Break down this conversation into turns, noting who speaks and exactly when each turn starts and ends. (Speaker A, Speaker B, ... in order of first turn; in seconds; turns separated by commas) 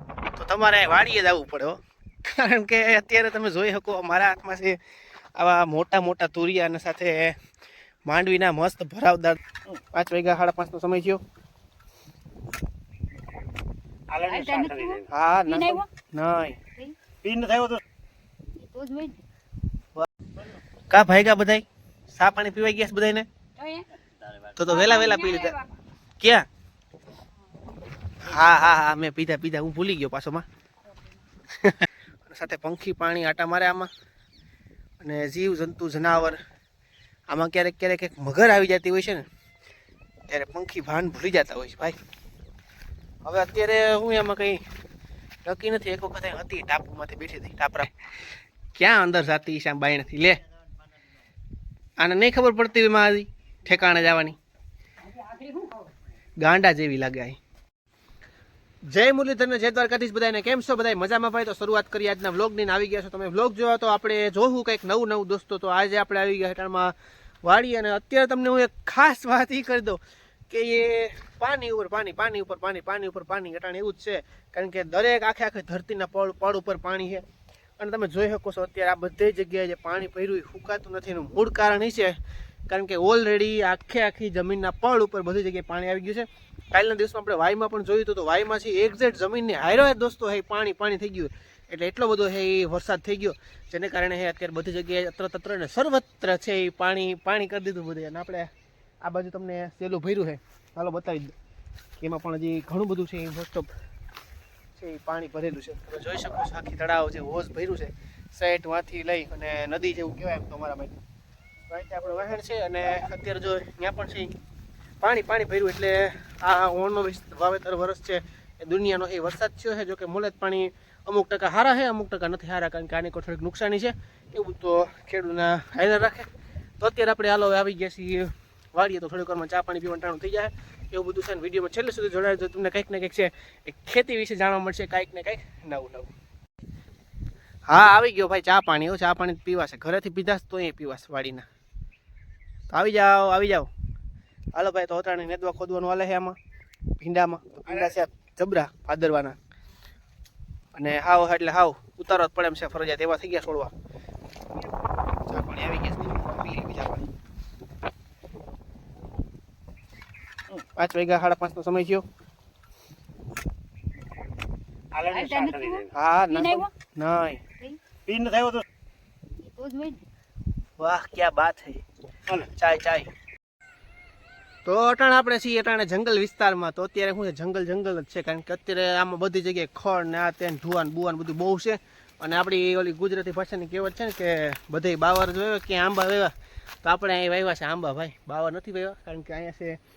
Speaker A: 0.3-4.8, Speaker A: 5.3-7.4, Speaker A: 8.1-9.4, Speaker A: 9.9-11.2, Speaker B: 14.1-15.0, Speaker C: 14.3-15.8, Speaker A: 15.1-16.6, Speaker B: 17.2-17.8, Speaker C: 18.6-19.2, Speaker A: 20.9-23.3, Speaker C: 23.6-23.9, Speaker A: 24.6-25.6, Speaker C: 24.7-25.6, Speaker A: 26.2-26.4, Speaker A: 28.2-30.4, Speaker A: 31.6-33.9, Speaker A: 35.0-36.4, Speaker A: 37.3-39.2, Speaker A: 40.3-42.0, Speaker A: 43.2-44.6, Speaker A: 45.4-48.0, Speaker A: 48.8-50.4, Speaker A: 52.0-54.4, Speaker C: 55.4-55.7, Speaker A: 56.4-57.4, Speaker A: 58.9-77.2, Speaker A: 77.8-82.2, Speaker A: 82.7-98.5, Speaker A: 99.0-101.3, Speaker A: 102.0-103.7, Speaker A: 104.8-111.0, Speaker A: 111.7-114.3, Speaker A: 115.0-126.3, Speaker A: 126.8-136.1, Speaker A: 137.7-141.4, Speaker A: 142.7-143.7, Speaker A: 144.5-146.4, Speaker A: 147.0-149.4, Speaker A: 150.7-153.7, Speaker A: 155.3-157.1, Speaker A: 160.6-162.0, Speaker B: 164.9-165.9, Speaker C: 165.2-165.8, Speaker A: 165.9-167.4, Speaker C: 166.4-166.7, Speaker B: 168.0-168.6, Speaker C: 169.4-170.0, Speaker A: 170.8-173.1, Speaker A: 174.6-189.8